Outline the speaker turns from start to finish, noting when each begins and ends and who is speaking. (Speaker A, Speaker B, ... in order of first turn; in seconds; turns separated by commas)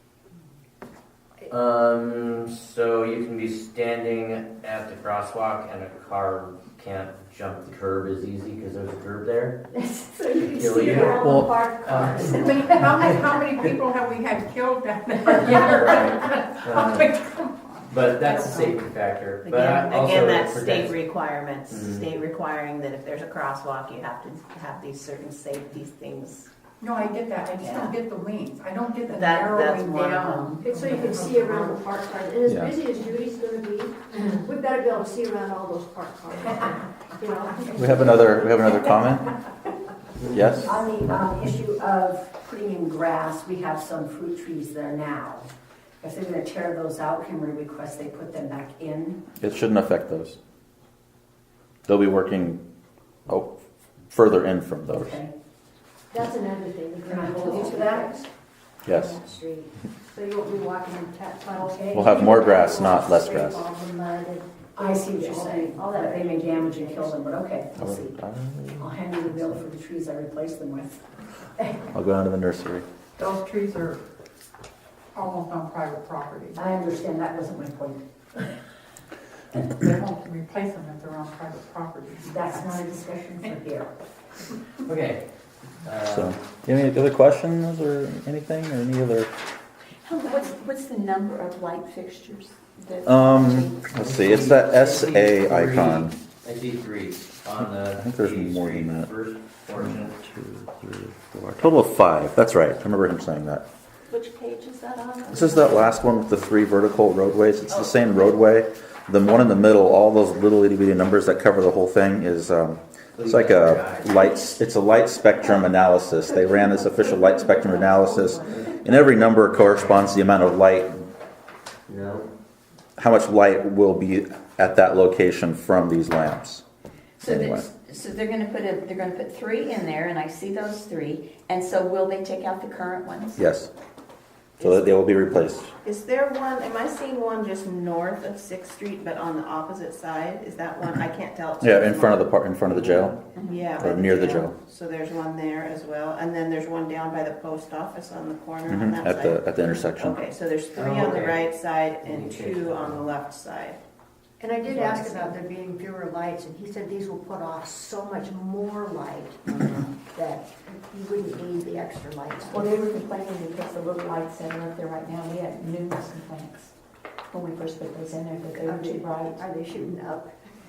Speaker A: 1.5-9.6, Speaker B: 9.7-13.1, Speaker A: 10.4-13.1, Speaker C: 11.2-11.5, Speaker D: 12.3-18.8, Speaker A: 15.4-17.1, Speaker A: 17.9-21.0, Speaker E: 19.4-26.5, Speaker A: 21.7-22.1, Speaker D: 26.8-31.8, Speaker E: 27.6-27.9, Speaker E: 29.1-30.6, Speaker B: 30.6-38.7, Speaker C: 32.5-32.7, Speaker C: 37.8-39.3, Speaker C: 40.3-40.8, Speaker F: 40.6-45.5, Speaker F: 46.0-49.2, Speaker C: 49.4-50.4, Speaker C: 51.9-52.6, Speaker C: 53.3-53.6, Speaker C: 54.1-55.2, Speaker F: 54.9-55.3, Speaker B: 56.1-58.3, Speaker F: 57.0-58.1, Speaker C: 58.9-59.2, Speaker B: 58.9-67.3, Speaker C: 61.9-63.7, Speaker F: 64.8-68.1, Speaker C: 67.8-68.9, Speaker F: 68.8-71.8, Speaker C: 71.9-72.9, Speaker D: 73.2-74.0, Speaker D: 75.1-76.7, Speaker F: 76.5-78.6, Speaker D: 79.7-82.9, Speaker F: 82.2-83.9, Speaker A: 84.8-85.2, Speaker A: 85.8-86.4, Speaker C: 86.1-89.3, Speaker G: 90.0-93.8, Speaker C: 93.1-96.1, Speaker A: 94.0-100.2, Speaker C: 97.8-99.1, Speaker C: 99.8-103.7, Speaker G: 104.1-106.0, Speaker C: 105.3-121.1, Speaker A: 113.2-114.1, Speaker B: 116.2-118.8, Speaker A: 119.6-120.1, Speaker A: 121.9-122.3, Speaker C: 123.0-126.6, Speaker G: 127.2-133.4, Speaker C: 127.2-127.7, Speaker C: 133.4-133.7, Speaker C: 134.6-135.7, Speaker E: 134.6-134.9, Speaker E: 135.8-153.8, Speaker C: 141.6-143.2, Speaker G: 143.3-143.6, Speaker C: 143.8-144.5, Speaker C: 148.7-150.2, Speaker A: 150.7-151.5, Speaker A: 152.0-153.1, Speaker B: 154.4-162.7, Speaker A: 154.7-155.3, Speaker G: 162.5-166.7, Speaker G: 167.3-169.4, Speaker B: 168.5-170.3